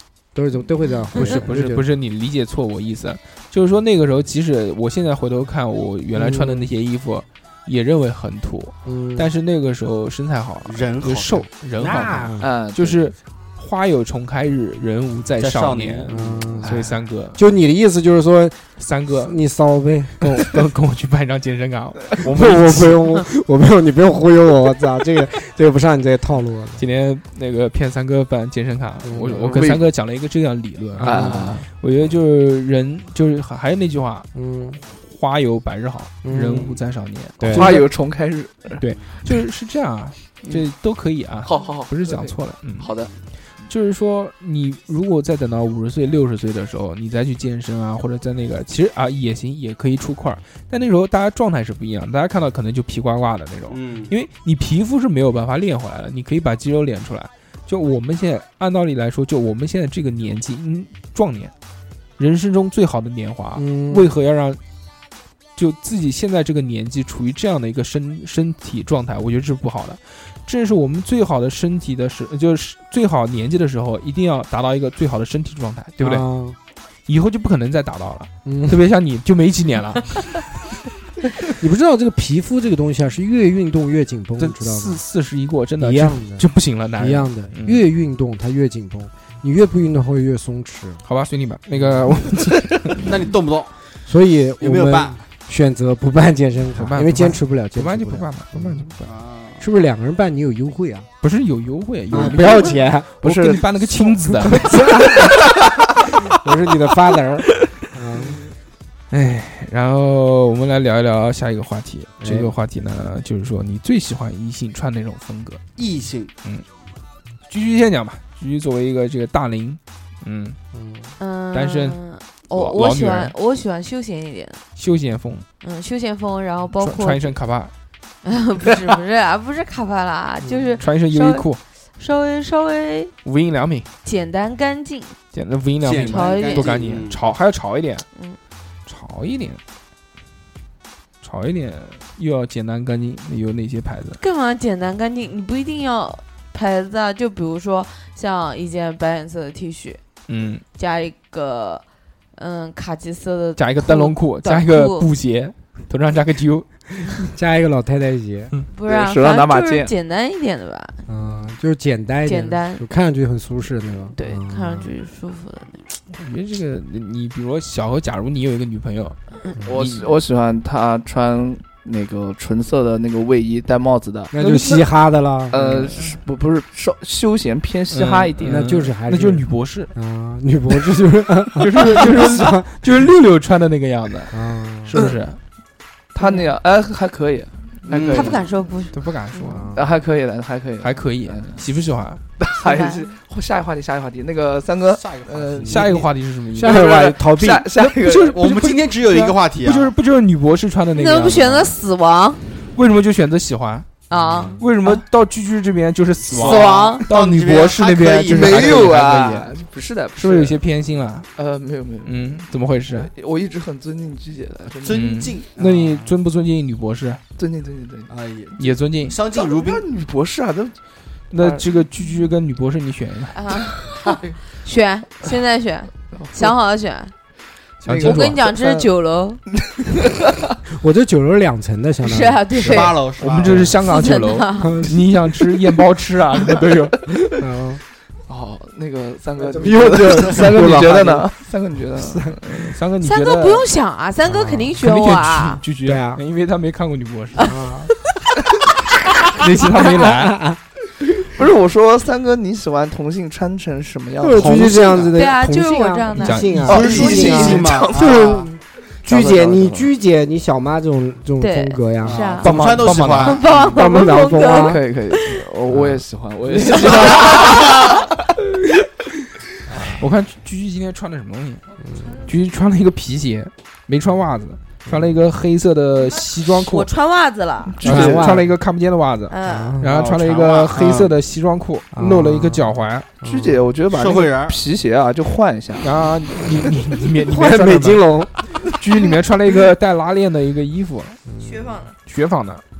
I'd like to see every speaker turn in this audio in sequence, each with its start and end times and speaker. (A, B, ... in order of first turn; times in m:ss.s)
0:00.3-0:01.8 A
0:01.1-0:17.4 B
0:06.1-0:06.7 A
0:08.8-0:09.3 A
0:10.6-0:11.5 C
0:11.8-0:12.5 A
0:12.4-0:13.0 D
0:15.4-0:16.7 C
0:16.1-0:18.6 A
0:18.8-0:19.4 B
0:19.1-0:20.6 A
0:20.3-0:23.1 B
0:22.2-0:26.8 A
0:26.8-0:34.3 B
0:29.0-0:29.6 A
0:29.3-0:29.8 D
0:31.0-0:31.6 A
0:31.0-0:31.6 D
0:34.3-0:34.8 A
0:34.9-0:37.9 B
0:36.2-0:36.8 A
0:37.4-0:37.8 A
0:37.5-0:38.8 D
0:38.8-0:42.9 B
0:41.4-0:43.1 D
0:43.7-1:01.5 B
0:53.7-0:54.1 C
1:02.2-1:04.6 B
1:03.6-1:04.1 A
1:05.6-1:16.2 B
1:16.0-1:16.6 A
1:17.0-1:20.6 B
1:18.4-1:18.8 A
1:21.5-1:25.0 A
1:24.4-1:27.8 B
1:25.8-1:26.4 A
1:27.0-1:31.0 A
1:31.0-1:33.1 B
1:31.7-1:32.2 A
1:33.0-1:33.7 C
1:34.0-1:38.9 A
1:34.6-1:35.2 C
1:36.7-1:39.1 B
1:39.0-1:39.6 C
1:39.6-1:41.1 A
1:41.2-1:45.1 B
1:42.1-1:45.4 A
1:42.2-1:42.5 D
1:43.2-1:43.6 D
1:44.8-1:45.5 D
1:46.2-1:48.4 A
1:49.1-1:55.6 B
1:52.2-1:52.5 A
1:55.8-1:56.3 C
1:57.5-2:00.6 B
2:00.7-2:01.1 A
2:01.2-2:04.6 E
2:01.5-2:02.0 B
2:02.5-2:03.3 B
2:04.8-2:05.4 B
2:05.6-2:07.4 E
2:06.8-2:07.7 B
2:08.2-2:13.1 E
2:10.8-2:11.6 B
2:13.2-2:13.9 B
2:14.0-2:15.2 E
2:15.3-2:18.0 B
2:15.8-2:17.2 C
2:16.0-2:16.8 E
2:18.8-2:19.6 B
2:21.2-2:24.2 B
2:24.2-2:30.0 E
2:30.3-2:30.6 B
2:30.7-2:31.8 E
2:32.4-2:35.1 E
2:33.6-2:36.7 B
2:37.2-2:38.5 A
2:38.7-2:41.0 E
2:38.9-2:39.9 D
2:41.1-2:44.9 A
2:42.2-2:42.8 E
2:44.1-2:45.8 E
2:46.1-2:49.2 B
2:49.6-2:54.3 D
2:49.7-2:50.1 B
2:54.3-2:55.6 A
2:54.4-2:54.8 B
2:55.5-2:58.6 D
2:55.5-2:56.2 B
2:57.9-2:59.9 B
2:58.4-3:03.1 A
3:01.6-3:05.4 B
3:04.3-3:05.0 A
3:06.1-3:08.4 D
3:06.2-3:06.5 E
3:07.9-3:08.4 C
3:08.0-3:09.6 E
3:08.9-3:09.8 B
3:09.5-3:09.9 A
3:09.7-3:11.6 D
3:10.8-3:12.2 B
3:12.4-3:16.1 D
3:12.6-3:13.1 E
3:14.9-3:16.0 C
3:15.6-3:16.9 B
3:16.5-3:17.7 A
3:16.6-3:18.4 D
3:17.8-3:21.8 B
3:18.2-3:19.9 C
3:20.9-3:22.5 E
3:22.7-3:23.9 B
3:24.1-3:24.6 E
3:24.1-3:24.6 A
3:24.6-3:29.5 B
3:26.3-3:27.1 E
3:26.3-3:28.9 C
3:28.3-3:30.6 D
3:30.2-3:31.3 B
3:31.4-3:35.1 D
3:32.0-3:33.1 B
3:34.8-3:36.1 C
3:34.9-3:37.2 B
3:37.4-3:38.1 D
3:38.1-3:39.8 C
3:38.6-3:39.2 B
3:39.3-3:40.8 D
3:41.3-3:43.4 B
3:41.3-3:41.7 D
3:43.3-3:47.1 E
3:43.8-3:44.4 D
3:46.1-3:46.5 D
3:47.8-3:48.4 B
3:47.9-3:48.8 D
3:48.0-3:49.4 E
3:49.6-3:50.2 D
3:50.7-3:53.7 A
3:52.0-3:53.0 E
3:52.5-3:53.7 C
3:53.2-3:57.1 B
3:53.8-3:54.8 E
3:54.5-3:55.0 A
3:57.4-3:57.8 A
3:58.3-4:02.7 D
3:59.5-4:00.5 C
3:59.6-4:01.3 A
4:02.0-4:02.4 A
4:02.5-4:03.7 B
4:03.0-4:05.6 E
4:04.2-4:04.8 A
4:04.8-4:07.6 B
4:05.8-4:06.2 A
4:07.5-4:07.9 A
4:09.2-4:10.4 B
4:09.6-4:10.6 A
4:11.2-4:15.1 D
4:14.2-4:22.4 A
4:14.3-4:15.1 C
4:15.1-4:16.8 E
4:16.1-4:16.8 B
4:16.6-4:18.5 D
4:16.7-4:18.5 C
4:19.0-4:19.9 D
4:21.4-4:22.6 E
4:22.0-4:23.9 C
4:22.4-4:23.4 B
4:23.2-4:25.4 E
4:23.7-4:24.8 A
4:24.5-4:28.1 D
4:26.5-4:27.6 A
4:27.3-4:27.9 C
4:30.0-4:31.6 B
4:31.8-4:32.1 A
4:32.2-4:36.9 B
4:34.9-4:35.1 A
4:36.5-4:37.8 E
4:37.7-4:38.4 D
4:37.8-4:38.5 A
4:37.8-4:43.1 B
4:39.3-4:39.8 E
4:39.4-4:39.9 A
4:39.8-4:41.2 C
4:41.9-4:43.6 A
4:43.2-4:45.9 D
4:43.9-4:44.6 C
4:45.8-4:48.1 B
4:47.2-4:48.3 A
4:48.6-4:51.2 B
4:51.3-4:51.8 A
4:51.4-4:51.9 E
4:52.0-4:52.6 B